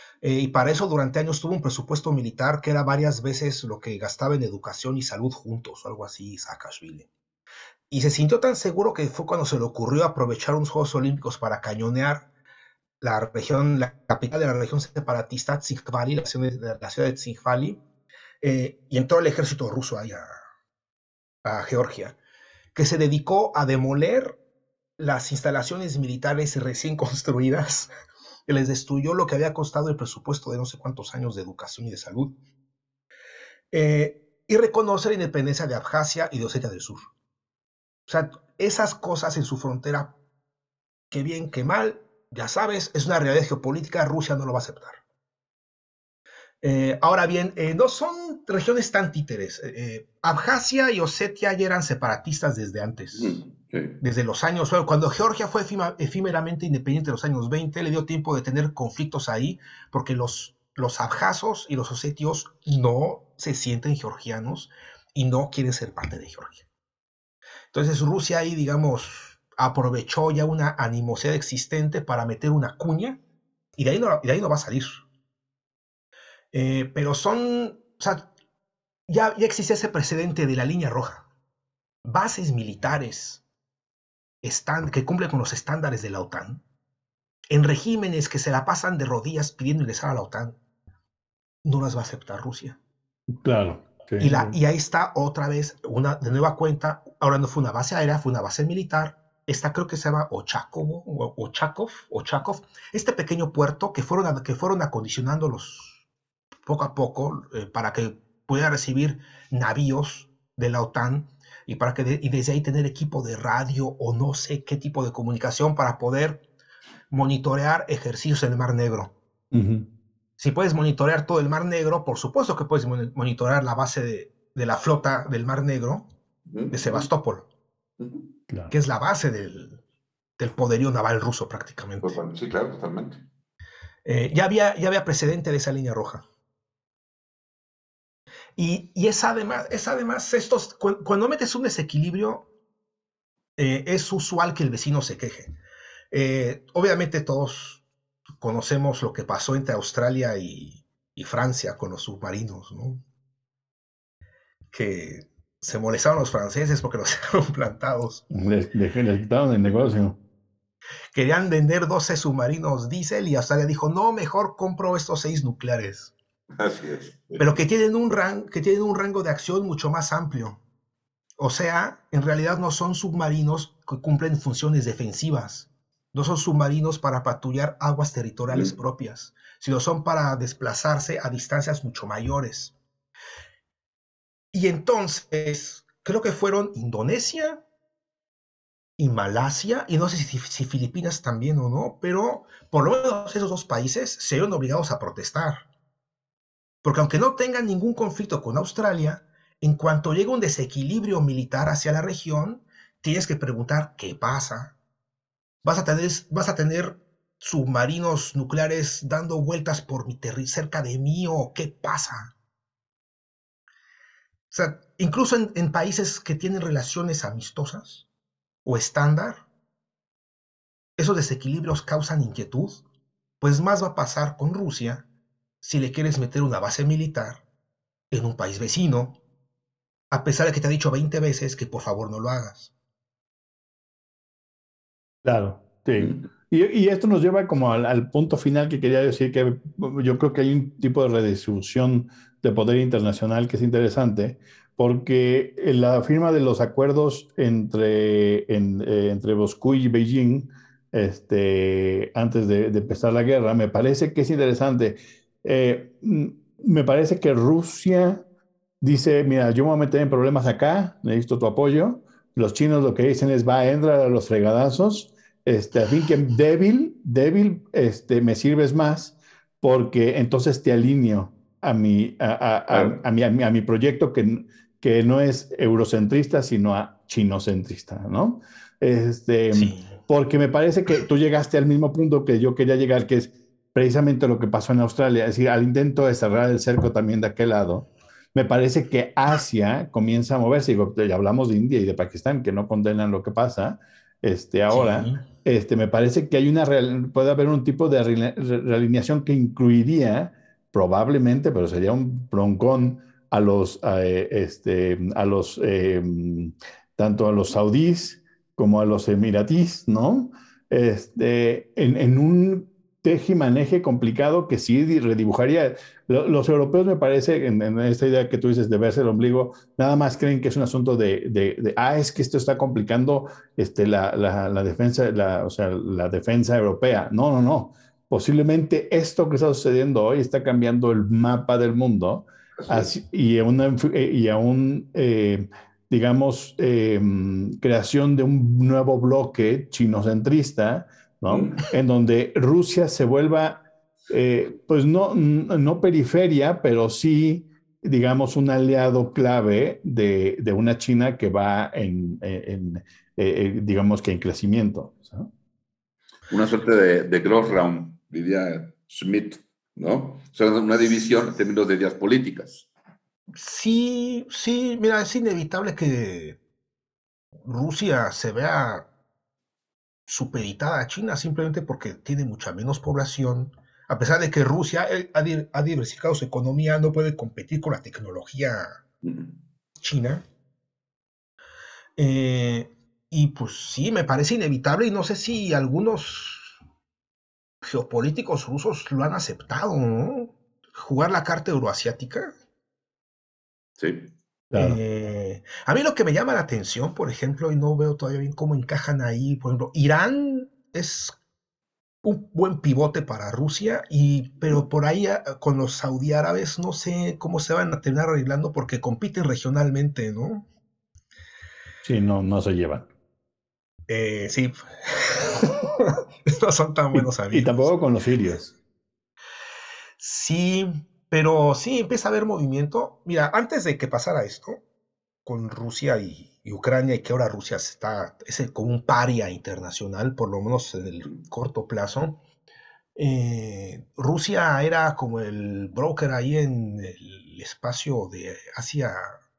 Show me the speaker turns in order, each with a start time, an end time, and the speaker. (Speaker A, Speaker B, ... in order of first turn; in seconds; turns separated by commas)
Speaker A: 0.2-7.1, Speaker A: 7.9-12.3, Speaker A: 13.0-17.8, Speaker A: 18.4-20.3, Speaker A: 21.4-22.2, Speaker A: 22.7-24.4, Speaker A: 25.0-27.9, Speaker A: 28.5-32.4, Speaker A: 33.7-37.1, Speaker A: 38.1-40.1, Speaker A: 41.1-45.0, Speaker A: 46.6-53.4, Speaker B: 53.1-54.0, Speaker A: 54.0-66.7, Speaker A: 67.7-73.2, Speaker A: 73.8-75.0, Speaker A: 76.5-78.3, Speaker A: 79.1-81.3, Speaker A: 82.0-83.4, Speaker A: 84.4-86.6, Speaker A: 87.5-90.6, Speaker A: 91.7-92.8, Speaker C: 93.4-94.6, Speaker A: 94.2-106.0, Speaker A: 106.7-116.5, Speaker A: 117.1-119.1, Speaker C: 119.5-119.9, Speaker A: 120.4-126.1, Speaker B: 126.5-127.1, Speaker A: 126.7-127.5, Speaker B: 128.0-128.3, Speaker C: 128.5-128.7, Speaker A: 128.7-129.8, Speaker A: 130.4-132.2, Speaker B: 132.0-133.2, Speaker A: 134.1-136.2, Speaker A: 138.6-142.5, Speaker A: 143.6-145.5, Speaker A: 146.1-147.8, Speaker A: 148.4-153.0, Speaker A: 154.7-158.2, Speaker C: 158.3-160.2, Speaker B: 159.7-159.9, Speaker A: 161.1-166.1, Speaker B: 166.6-167.6, Speaker A: 167.4-170.6, Speaker A: 171.4-182.8, Speaker B: 178.5-178.8, Speaker A: 184.5-187.6, Speaker A: 189.0-195.6, Speaker A: 196.8-204.7, Speaker A: 205.6-212.3, Speaker A: 214.5-218.1, Speaker A: 218.7-219.4, Speaker A: 221.0-222.8, Speaker A: 223.4-225.1, Speaker A: 225.6-227.4, Speaker A: 228.1-229.2, Speaker A: 230.1-232.7, Speaker C: 235.2-258.2, Speaker B: 236.0-236.3, Speaker C: 258.8-355.3, Speaker B: 272.7-273.0, Speaker A: 279.5-279.9, Speaker A: 294.7-295.2, Speaker B: 332.6-332.9, Speaker B: 341.3-341.7, Speaker B: 356.3-362.7, Speaker A: 363.4-366.4, Speaker A: 367.5-368.9, Speaker A: 370.1-378.8, Speaker B: 379.0-379.4, Speaker A: 379.8-380.2, Speaker A: 382.0-386.6, Speaker A: 387.6-392.3, Speaker B: 393.8-394.1, Speaker C: 394.5-394.8, Speaker A: 394.5-401.1, Speaker A: 402.0-410.4, Speaker C: 411.8-412.9, Speaker A: 413.9-417.8, Speaker C: 416.9-418.5, Speaker A: 420.0-424.6, Speaker A: 425.2-432.2, Speaker A: 433.0-439.2